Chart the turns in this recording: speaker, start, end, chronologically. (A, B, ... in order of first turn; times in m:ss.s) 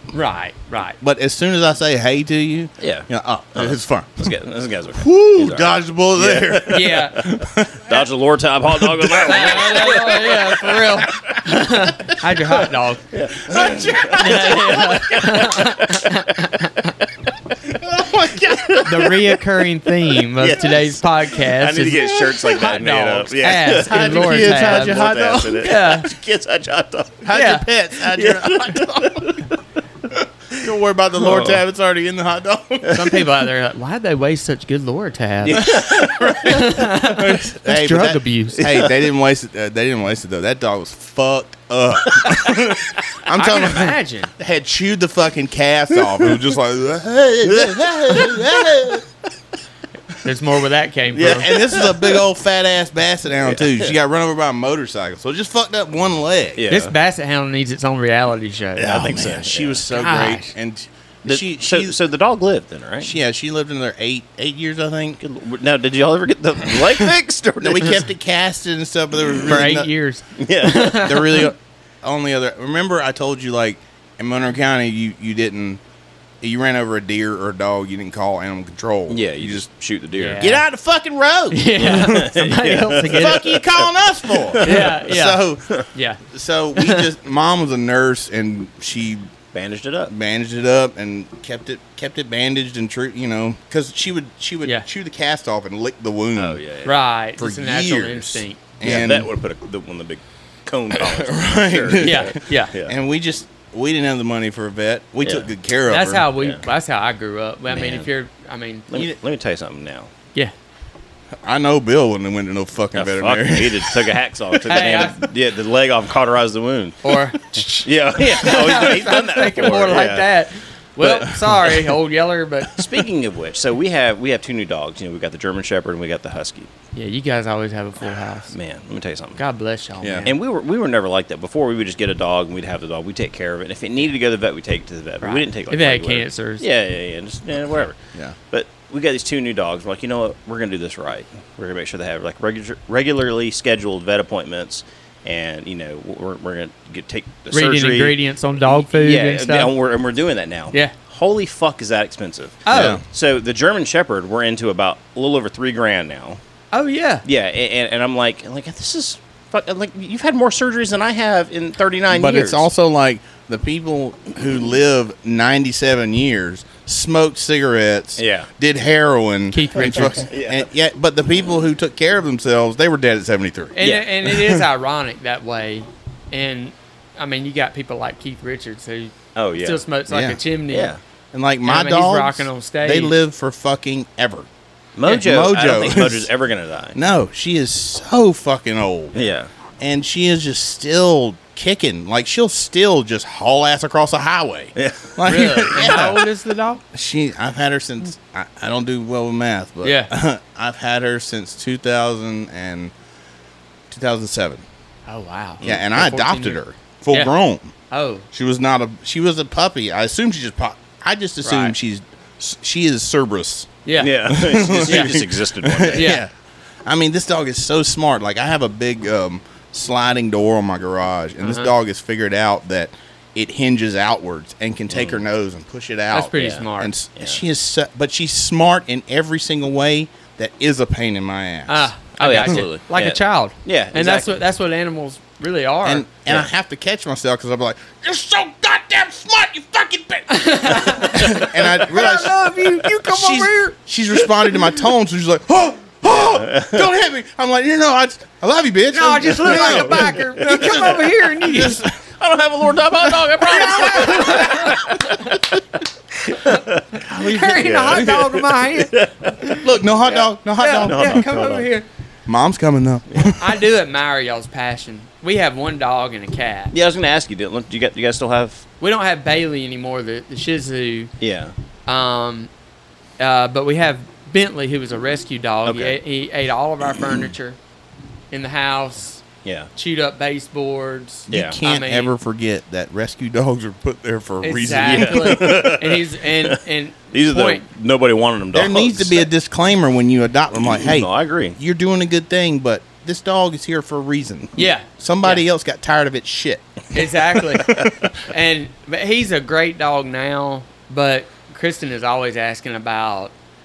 0:00.1-0:01.0 A
0:01.0-0:04.3 B
0:02.8-0:11.4 C
0:05.0-0:08.0 B
0:06.7-0:07.2 A
0:08.7-0:10.8 B
0:09.2-0:13.1 A
0:13.1-0:16.6 C
0:13.4-0:15.7 B
0:14.1-0:16.9 A
0:17.7-0:19.2 B
0:18.0-0:19.3 C
0:18.7-0:26.1 A
0:20.4-0:27.3 C
0:23.7-0:25.6 B
0:27.2-0:29.4 B
0:27.3-0:27.7 A
0:28.0-0:29.5 C
0:30.5-0:33.2 B
0:31.1-0:31.6 C
0:32.9-0:35.8 A
0:35.4-0:36.9 C
0:35.6-0:49.0 B
0:36.4-0:38.7 A
0:38.6-0:38.9 C
0:42.1-0:42.8 C
0:43.3-0:44.3 A
0:46.0-0:46.5 C
0:47.4-0:49.0 C
0:50.2-0:51.5 A
0:51.1-0:52.2 C
0:51.2-0:56.6 B
0:53.4-0:54.0 C
0:56.6-0:56.9 C
0:56.7-0:59.2 A
0:58.8-1:02.0 B
0:58.8-0:59.8 C
0:59.9-1:00.5 A
1:01.3-1:03.1 C
1:03.0-1:05.2 B
1:05.2-1:08.0 C
1:07.6-1:09.9 B
1:09.2-1:09.6 C
1:09.4-1:11.5 A
1:10.4-1:11.4 C
1:11.0-1:15.8 B
1:16.4-1:19.7 B
1:19.1-1:20.6 C
1:20.2-1:20.6 A
1:20.4-1:22.3 B
1:21.5-1:23.6 A
1:21.8-1:25.9 C
1:23.0-1:25.7 B
1:24.6-1:26.2 A
1:26.3-1:29.3 B
1:26.8-1:27.1 A
1:29.5-1:30.1 C
1:30.1-1:36.6 B
1:36.4-1:37.0 C
1:36.8-1:38.7 A
1:37.4-1:39.3 B
1:38.8-1:42.9 C
1:40.9-1:46.3 B
1:42.0-1:42.8 A
1:45.2-1:45.5 C
1:45.9-1:48.9 A
1:46.4-1:46.7 C
1:47.7-1:48.1 C
1:48.9-1:50.1 C
1:51.4-1:54.2 B
1:52.9-1:57.1 C
1:54.6-1:55.3 A
1:57.0-2:02.9 A
1:57.8-2:00.3 C
2:01.0-2:01.9 C
2:02.7-2:06.7 C
2:06.9-2:08.6 A
2:08.5-2:09.4 C
2:09.4-2:10.4 A
2:10.0-2:10.3 B
2:10.3-2:18.0 C
2:15.2-2:16.6 A
2:18.5-2:36.4 C
2:27.5-2:29.7 A
2:32.7-2:33.0 A
2:32.7-2:33.0 B
2:36.7-2:37.2 A
2:37.2-2:42.7 C
2:42.1-2:53.8 B
2:48.2-2:48.5 C
2:49.5-2:50.3 A
2:50.0-2:50.7 C
2:53.8-3:00.9 A
2:53.8-2:54.1 C
2:59.4-2:59.8 C
3:00.1-3:00.4 B
3:00.7-3:01.0 C
3:01.3-3:04.5 B
3:01.6-3:03.2 A
3:05.0-3:07.0 C
3:05.1-3:06.3 B
3:06.9-3:09.3 B
3:09.2-3:09.5 C
3:09.8-3:16.3 B
3:14.8-3:15.4 C
3:15.3-3:16.8 A
3:16.9-3:22.9 B
3:19.8-3:20.1 A
3:23.9-3:24.6 B
3:25.1-3:26.6 A
3:25.6-3:27.7 B
3:27.9-3:28.3 A
3:28.3-3:33.7 B
3:31.4-3:31.8 A
3:33.8-3:34.2 A
3:34.0-3:36.2 C
3:34.2-3:36.3 B
3:34.9-3:35.2 A
3:35.9-3:36.2 A
3:36.9-3:51.9 B
3:41.4-3:41.7 A
3:44.9-3:45.2 C
3:46.1-3:46.9 A
3:46.4-3:46.7 C
3:47.2-3:47.4 C
3:51.7-3:56.1 A
3:52.2-3:54.4 C
3:55.8-4:11.9 B
4:00.3-4:03.7 A
4:06.2-4:06.9 C
4:08.9-4:11.8 A
4:09.4-4:15.2 C
4:13.1-4:15.2 B
4:13.4-4:15.4 A
4:16.2-4:21.7 C
4:16.4-4:19.7 A
4:17.0-4:18.2 B
4:19.6-4:21.3 B
4:20.6-4:21.9 A
4:22.3-4:23.6 B
4:23.1-4:23.4 C
4:23.4-4:26.7 A
4:26.7-4:28.6 C
4:28.8-4:31.1 A
4:31.2-4:31.6 C
4:31.9-4:32.5 A
4:33.2-4:37.6 A
4:35.6-4:36.0 C
4:38.3-4:39.2 A
4:39.4-4:39.7 C
4:39.8-4:42.1 A
4:41.3-4:45.7 B
4:41.3-4:41.6 C
4:44.4-4:47.6 A
4:44.8-4:46.6 C
4:47.1-4:49.3 C
4:48.5-4:58.1 B
4:50.5-4:51.6 C
4:54.6-4:55.4 A
4:56.9-5:03.3 A